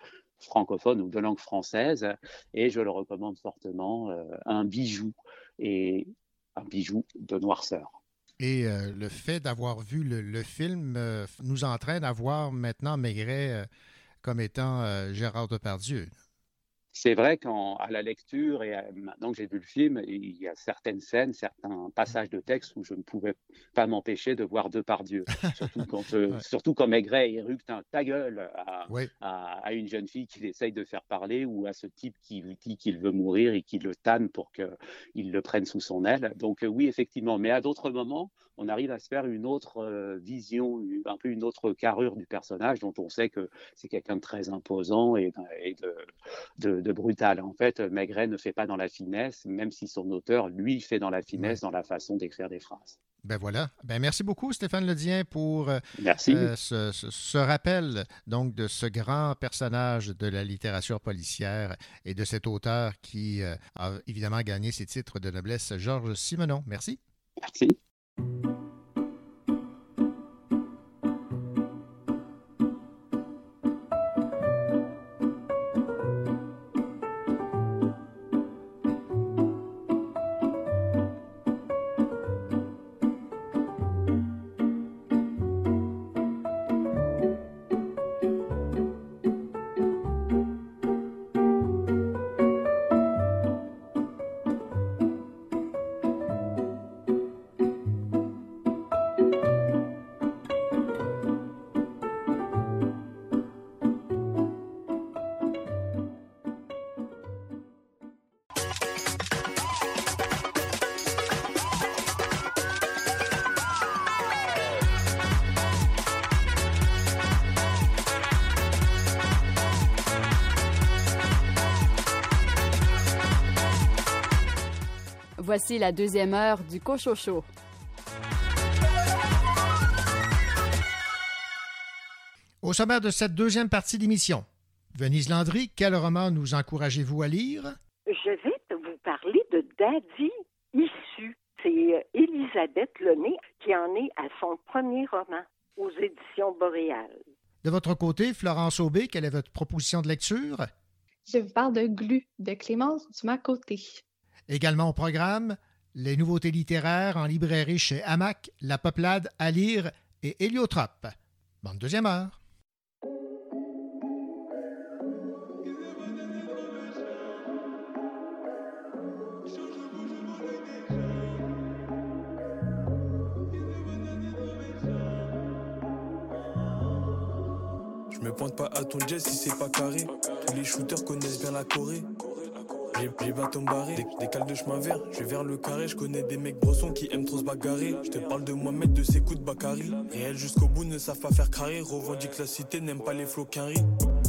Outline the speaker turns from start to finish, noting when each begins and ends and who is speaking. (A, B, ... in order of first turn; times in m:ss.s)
0:00.4-0:08.0 A
0:08.4-0:13.7 B
0:14.2-0:16.1 B
0:16.9-0:46.1 A
0:46.6-0:53.0 A
0:53.2-1:07.0 B
0:56.0-0:56.5 A
1:07.4-1:07.8 A
2:05.4-2:07.5 C
2:12.6-2:17.8 B
2:18.1-2:27.2 D
2:27.6-2:30.7 B
2:31.3-2:34.0 E
2:34.5-2:42.4 B
2:58.1-2:59.8 F
3:00.7-3:01.7 F
3:02.9-3:05.3 F
3:07.6-3:11.6 F
3:12.5-3:12.8 F
3:13.5-3:13.8 F